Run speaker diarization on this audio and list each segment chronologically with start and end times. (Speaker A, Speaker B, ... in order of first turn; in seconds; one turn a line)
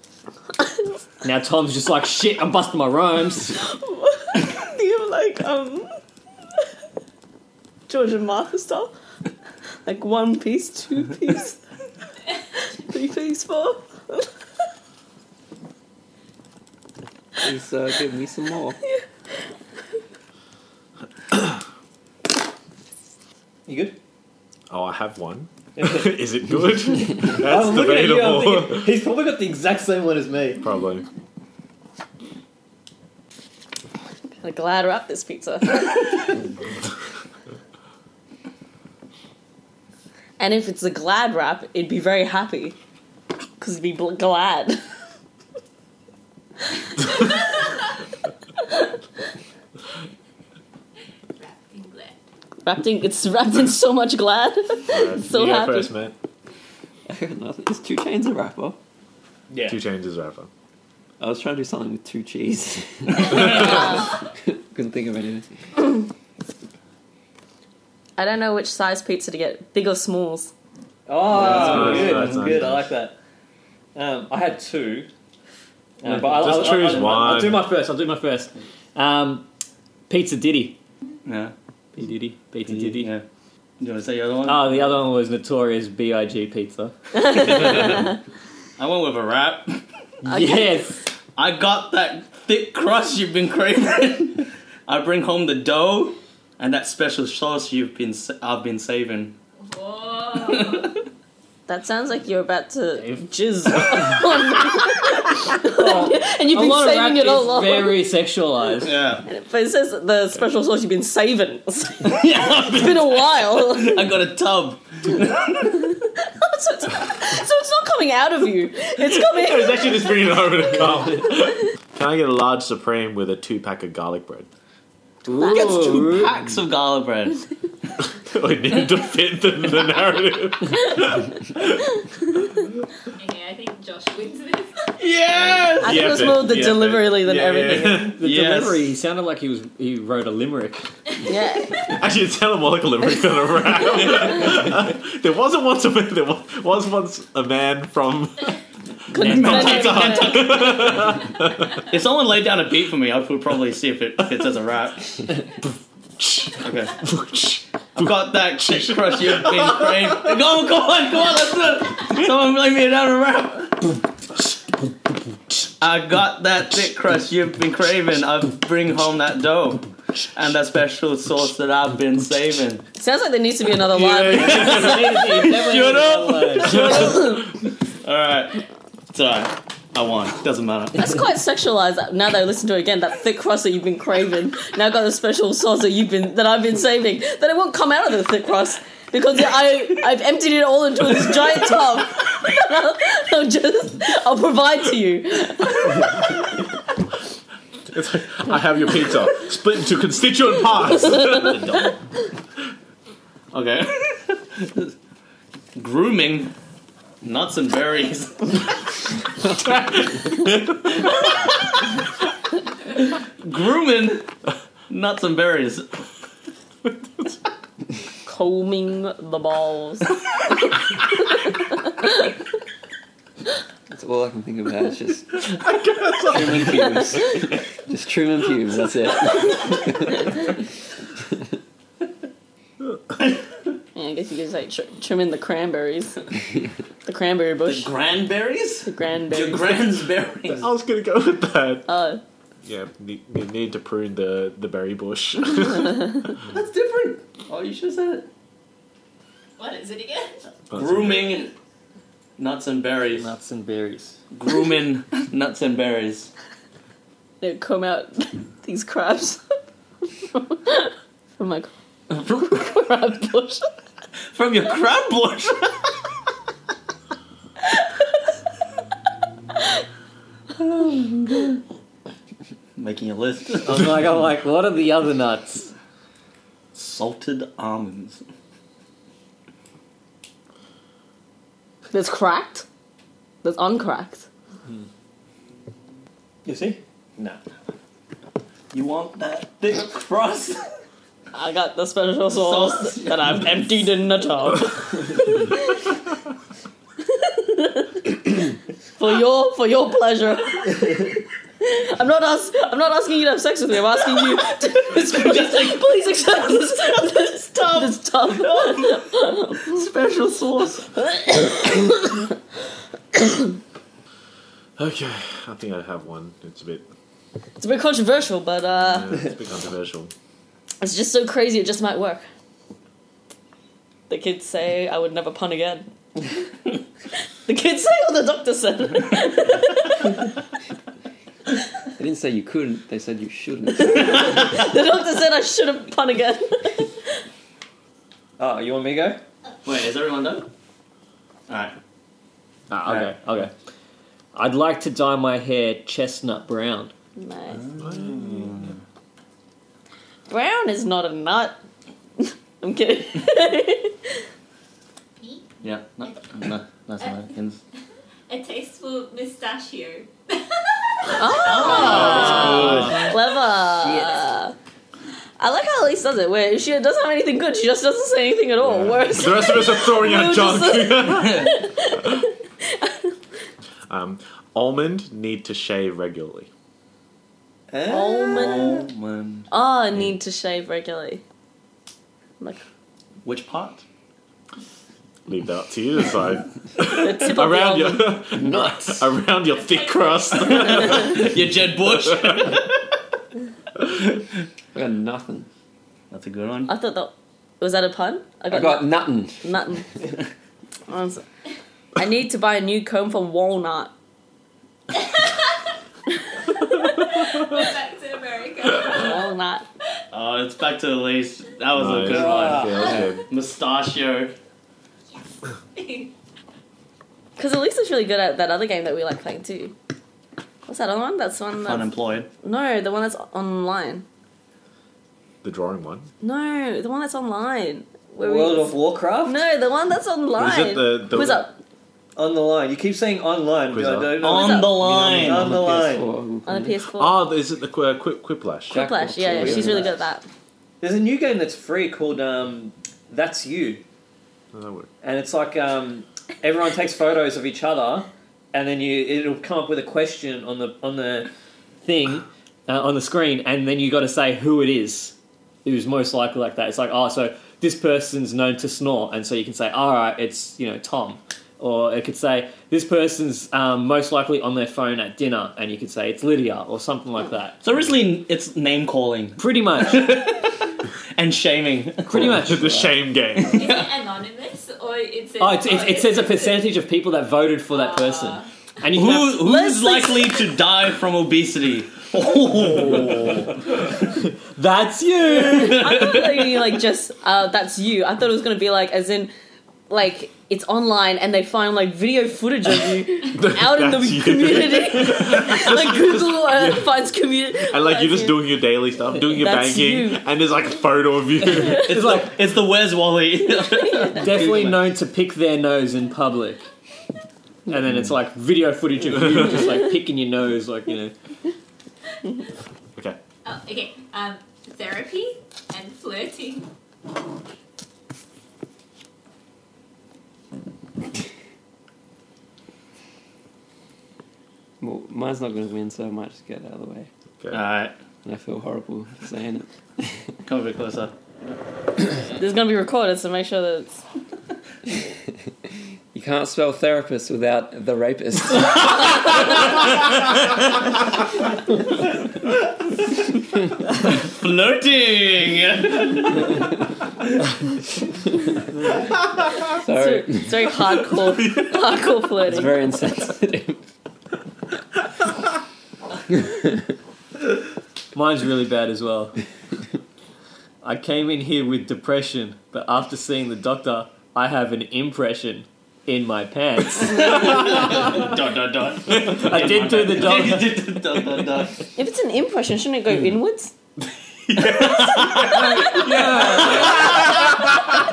Speaker A: 1.2-3.6
Speaker B: 3.6-5.9
Speaker B: 7.9-8.9
Speaker B: 9.8-11.6
Speaker B: 12.8-14.3
Speaker C: 17.4-18.8
Speaker A: 23.7-24.0
Speaker D: 24.7-28.9
Speaker A: 25.8-26.1
Speaker A: 27.3-30.6
Speaker D: 30.6-31.1
Speaker B: 34.4-36.5
Speaker B: 40.4-42.8
Speaker B: 43.6-44.8
Speaker E: 51.4-52.2
Speaker B: 52.6-55.9
Speaker D: 54.9-56.1
Speaker C: 57.1-58.8
Speaker F: 59.5-59.8
Speaker D: 59.6-60.5
Speaker C: 61.2-65.5
Speaker F: 63.1-63.7
Speaker B: 68.2-70.5
Speaker A: 71.1-73.2
Speaker D: 71.3-72.9
Speaker F: 71.3-72.5
Speaker A: 74.0-75.1
Speaker A: 76.0-79.5
Speaker D: 76.1-77.7
Speaker A: 80.1-80.8
Speaker F: 81.2-81.5
Speaker A: 81.9-83.1
Speaker F: 82.7-83.2
Speaker F: 83.8-84.9
Speaker A: 84.5-86.9
Speaker B: 87.2-88.0
Speaker F: 87.6-87.9
Speaker F: 88.8-89.8
Speaker A: 90.2-91.0
Speaker B: 90.3-90.7
Speaker F: 91.4-99.4
Speaker E: 99.6-101.0
Speaker F: 100.3-101.0
Speaker B: 101.7-108.0
Speaker A: 103.0-103.3
Speaker A: 105.6-109.0
Speaker F: 108.8-109.2
Speaker B: 109.2-114.1
Speaker F: 112.0-115.9
Speaker B: 115.9-120.3
Speaker D: 119.1-124.5
Speaker A: 125.2-126.4
Speaker B: 125.4-125.7
Speaker F: 125.5-127.4
Speaker D: 128.2-131.9
Speaker E: 133.2-134.9
Speaker F: 135.0-136.2
Speaker D: 135.6-138.2
Speaker B: 135.8-138.1
Speaker A: 138.2-140.9
Speaker F: 138.2-138.8
Speaker B: 141.2-141.9
Speaker E: 141.3-141.9
Speaker D: 141.9-148.6
Speaker B: 149.1-150.7
Speaker F: 149.2-151.2
Speaker D: 149.2-151.8
Speaker A: 149.2-149.7
Speaker F: 151.9-155.2
Speaker D: 156.2-160.4
Speaker F: 156.6-157.0
Speaker F: 158.0-164.0
Speaker F: 165.8-172.8
Speaker B: 173.0-174.9
Speaker D: 173.9-175.1
Speaker F: 174.3-181.1
Speaker A: 174.4-176.9
Speaker B: 176.7-177.4
Speaker D: 176.8-177.4
Speaker B: 180.9-196.4
Speaker D: 197.9-201.8
Speaker B: 201.1-201.5
Speaker F: 203.5-204.9
Speaker F: 205.8-206.5
Speaker F: 207.2-208.8
Speaker F: 213.0-214.3
Speaker F: 214.9-215.9
Speaker B: 218.2-220.1
Speaker C: 223.9-225.5
Speaker D: 225.4-227.2
Speaker C: 226.3-230.3
Speaker B: 233.9-236.3
Speaker B: 237.1-237.9
Speaker F: 237.7-240.7
Speaker B: 238.9-239.8
Speaker D: 240.6-241.9
Speaker B: 241.9-242.2
Speaker D: 242.6-246.3
Speaker F: 246.4-248.3
Speaker E: 249.6-250.4
Speaker D: 250.7-251.4
Speaker F: 250.8-251.5
Speaker F: 252.4-253.3
Speaker A: 253.1-254.2
Speaker F: 254.3-256.3
Speaker B: 257.4-259.4
Speaker B: 260.2-263.7
Speaker F: 264.3-265.7
Speaker B: 270.6-271.6
Speaker F: 272.8-274.0
Speaker A: 273.6-275.7
Speaker F: 276.8-278.2
Speaker B: 281.9-282.7
Speaker B: 283.4-284.3
Speaker A: 286.4-287.4
Speaker F: 288.7-290.6
Speaker B: 291.3-295.8
Speaker F: 292.3-293.6
Speaker B: 297.1-298.4
Speaker B: 299.0-309.8
Speaker F: 304.9-305.9
Speaker F: 307.6-309.0
Speaker F: 309.6-310.9
Speaker B: 311.0-312.3
Speaker D: 314.8-316.9
Speaker B: 317.6-319.3
Speaker D: 318.8-320.1
Speaker B: 320.8-322.2
Speaker B: 324.1-325.9
Speaker B: 327.5-330.2
Speaker C: 332.0-334.4
Speaker B: 333.8-336.9
Speaker A: 338.4-339.2
Speaker F: 339.6-340.5
Speaker F: 341.5-341.8
Speaker A: 342.7-343.5
Speaker F: 342.9-343.1
Speaker A: 344.4-346.9
Speaker B: 347.2-347.7
Speaker F: 347.5-348.8
Speaker D: 347.8-348.7
Speaker B: 350.3-351.6
Speaker B: 352.2-354.1
Speaker E: 355.2-356.4
Speaker F: 355.6-357.6
Speaker E: 357.0-357.3
Speaker E: 358.3-362.9
Speaker B: 361.2-364.5
Speaker F: 361.4-363.1
Speaker D: 362.2-363.0
Speaker B: 365.4-373.1
Speaker D: 368.6-371.6
Speaker F: 371.1-371.6
Speaker D: 373.9-376.5
Speaker F: 377.7-379.5
Speaker B: 377.9-378.9
Speaker B: 379.5-381.2
Speaker F: 383.2-383.8
Speaker D: 385.3-391.3
Speaker B: 386.8-388.3
Speaker C: 388.4-389.0
Speaker E: 389.5-391.0
Speaker F: 390.5-392.8
Speaker C: 394.7-395.5
Speaker F: 396.1-396.7
Speaker B: 396.7-399.9
Speaker C: 398.5-399.5
Speaker B: 400.9-401.2
Speaker B: 402.0-403.9
Speaker E: 404.9-405.5
Speaker E: 406.6-409.3
Speaker B: 408.9-409.7
Speaker F: 410.1-414.3
Speaker D: 411.8-413.2
Speaker A: 412.1-412.9
Speaker E: 412.8-413.1
Speaker E: 415.7-416.1
Speaker B: 417.4-419.7
Speaker B: 420.7-424.1
Speaker F: 421.6-422.3
Speaker D: 425.4-426.1
Speaker B: 426.2-428.8
Speaker A: 428.2-429.4
Speaker B: 429.3-431.6
Speaker D: 430.4-431.5
Speaker A: 432.2-436.1
Speaker D: 433.7-434.2
Speaker F: 434.2-435.5
Speaker B: 434.2-434.8
Speaker C: 435.0-436.8
Speaker B: 436.5-437.2
Speaker D: 436.9-438.9
Speaker C: 438.7-440.0
Speaker B: 438.7-440.2
Speaker A: 439.4-439.8
Speaker A: 440.8-443.8
Speaker D: 444.5-444.9
Speaker A: 445.0-451.3
Speaker A: 451.8-467.6
Speaker F: 467.6-472.4
Speaker A: 469.4-470.1
Speaker A: 472.1-473.0
Speaker D: 472.1-473.7
Speaker F: 473.4-473.8
Speaker E: 473.4-476.6
Speaker A: 475.4-479.4
Speaker E: 477.7-478.5
Speaker F: 478.9-483.6
Speaker B: 479.4-480.5
Speaker A: 484.6-486.1
Speaker F: 485.4-486.5
Speaker B: 485.6-489.3
Speaker B: 489.9-498.5
Speaker D: 493.3-497.0
Speaker D: 497.5-501.9
Speaker B: 499.2-500.2
Speaker B: 501.5-501.8
Speaker A: 501.8-502.4
Speaker F: 501.8-504.8
Speaker B: 503.6-504.4
Speaker A: 504.1-506.6
Speaker A: 507.7-511.1
Speaker E: 513.5-516.7
Speaker C: 524.8-527.1
Speaker F: 527.5-528.0
Speaker C: 528.2-530.1
Speaker F: 530.5-531.1
Speaker B: 532.4-534.0
Speaker C: 536.1-539.1
Speaker F: 539.4-540.1
Speaker F: 544.0-546.6
Speaker C: 549.6-550.7
Speaker B: 549.8-552.8
Speaker C: 552.4-553.9
Speaker C: 556.4-556.7
Speaker A: 558.1-559.4
Speaker A: 560.8-567.5
Speaker F: 567.1-571.8
Speaker A: 569.3-570.8
Speaker B: 572.0-573.7
Speaker D: 574.5-577.8
Speaker F: 574.6-575.9
Speaker A: 575.9-577.0